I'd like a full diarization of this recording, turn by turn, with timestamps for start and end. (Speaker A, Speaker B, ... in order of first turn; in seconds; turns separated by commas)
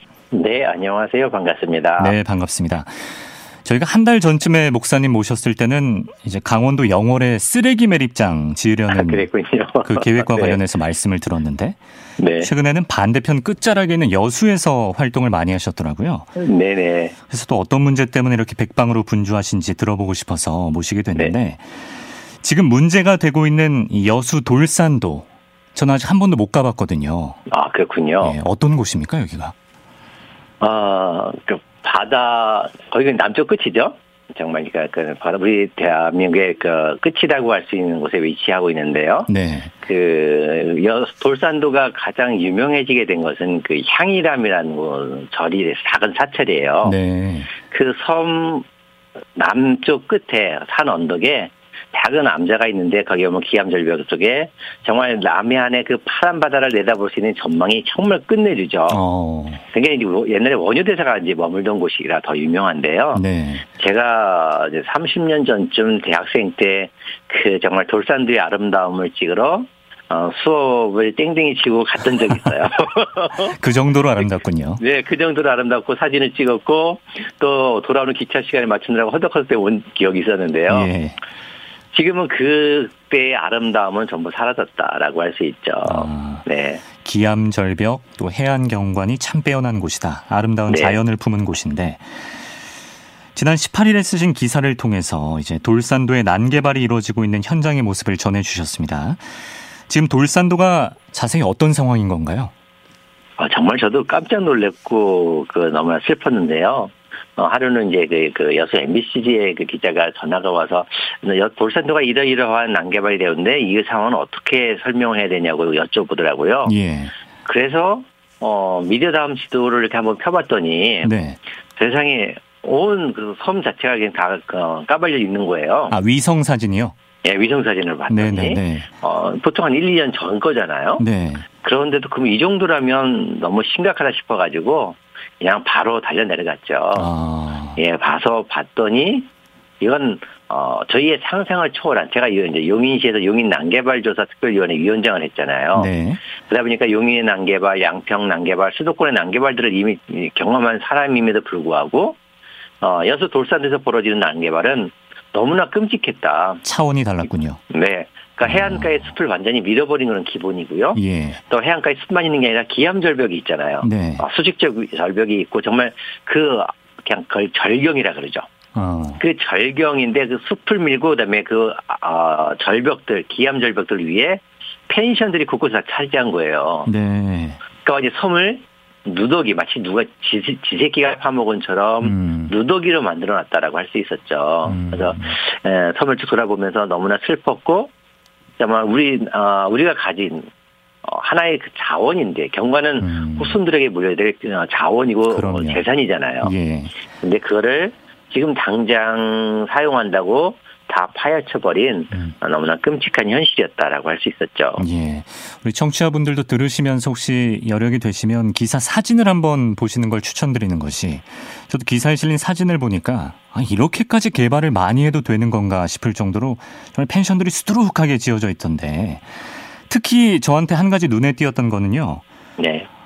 Speaker A: 0.3-2.1, Speaker B: 2.0-9.2, Speaker A: 8.9-10.6, Speaker B: 9.8-11.8, Speaker A: 12.2-12.5, Speaker B: 12.4-16.3, Speaker A: 16.4-17.1, Speaker B: 17.3-21.9, Speaker B: 22.4-27.4, Speaker A: 27.5-28.3, Speaker B: 28.2-29.5, Speaker A: 30.6-39.3, Speaker B: 39.3-39.7, Speaker A: 39.8-47.0, Speaker B: 46.8-47.5, Speaker A: 47.5-48.6, Speaker A: 49.4-59.0, Speaker B: 58.9-59.6, Speaker A: 59.7-63.2, Speaker B: 63.1-63.7, Speaker A: 63.8-73.5, Speaker B: 73.4-74.8, Speaker A: 74.8-80.9, Speaker B: 80.7-81.2, Speaker A: 81.9-86.8, Speaker B: 85.8-86.4, Speaker B: 87.0-92.3, Speaker A: 90.7-91.0, Speaker B: 93.3-99.2, Speaker B: 99.9-102.5, Speaker A: 103.4-116.7, Speaker B: 116.6-117.1, Speaker A: 117.4-121.1, Speaker B: 121.0-121.4, Speaker A: 121.8-125.9, Speaker B: 125.9-126.9, Speaker A: 127.2-131.0, Speaker B: 128.1-128.9, Speaker B: 131.0-131.4, Speaker A: 131.6-137.1, Speaker B: 136.9-137.8, Speaker A: 137.8-139.3, Speaker A: 139.8-145.9, Speaker B: 145.8-146.2, Speaker A: 146.5-152.2, Speaker A: 152.8-156.6, Speaker B: 156.6-157.6, Speaker A: 157.7-168.4, Speaker B: 158.4-159.0, Speaker B: 160.9-161.4, Speaker B: 163.8-164.2, Speaker B: 168.7-169.2, Speaker A: 169.2-176.9, Speaker B: 176.8-177.6, Speaker A: 177.8-187.9, Speaker B: 182.0-182.5, Speaker B: 184.6-185.4, Speaker A: 188.6-190.5, Speaker A: 191.0-196.5, Speaker B: 193.0-193.6, Speaker B: 195.3-195.8, Speaker B: 196.4-196.9, Speaker A: 197.2-204.8, Speaker B: 204.8-222.2, Speaker A: 222.6-222.9